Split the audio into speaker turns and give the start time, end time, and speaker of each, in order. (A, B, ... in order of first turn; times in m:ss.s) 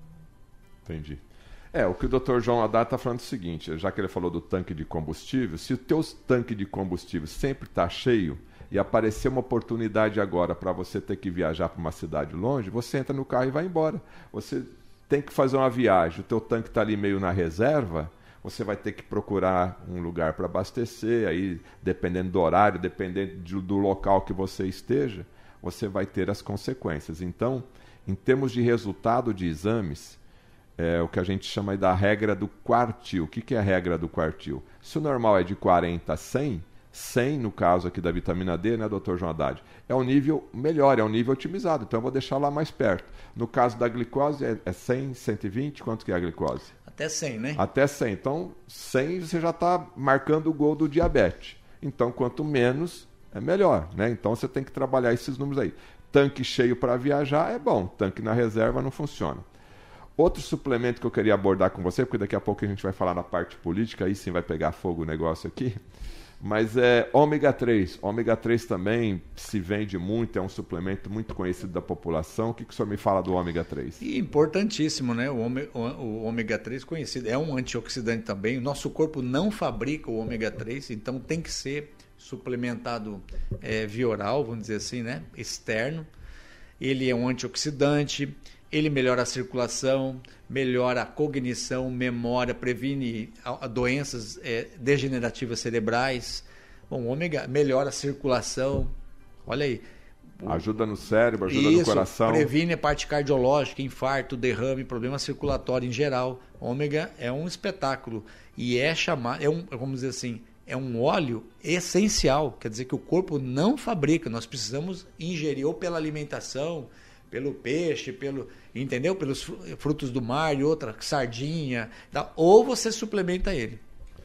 0:00.9-0:30.2 A
0:30.8-0:46.7 A
0:46.9-0:47.6 B
0:47.6-0:59.4 A
1:00.2-1:05.8 A
1:06.4-1:14.0 A
1:14.0-1:26.1 B
1:26.8-1:38.9 B
1:39.5-1:39.8 B
1:40.4-1:42.5 A
1:41.5-2:03.8 B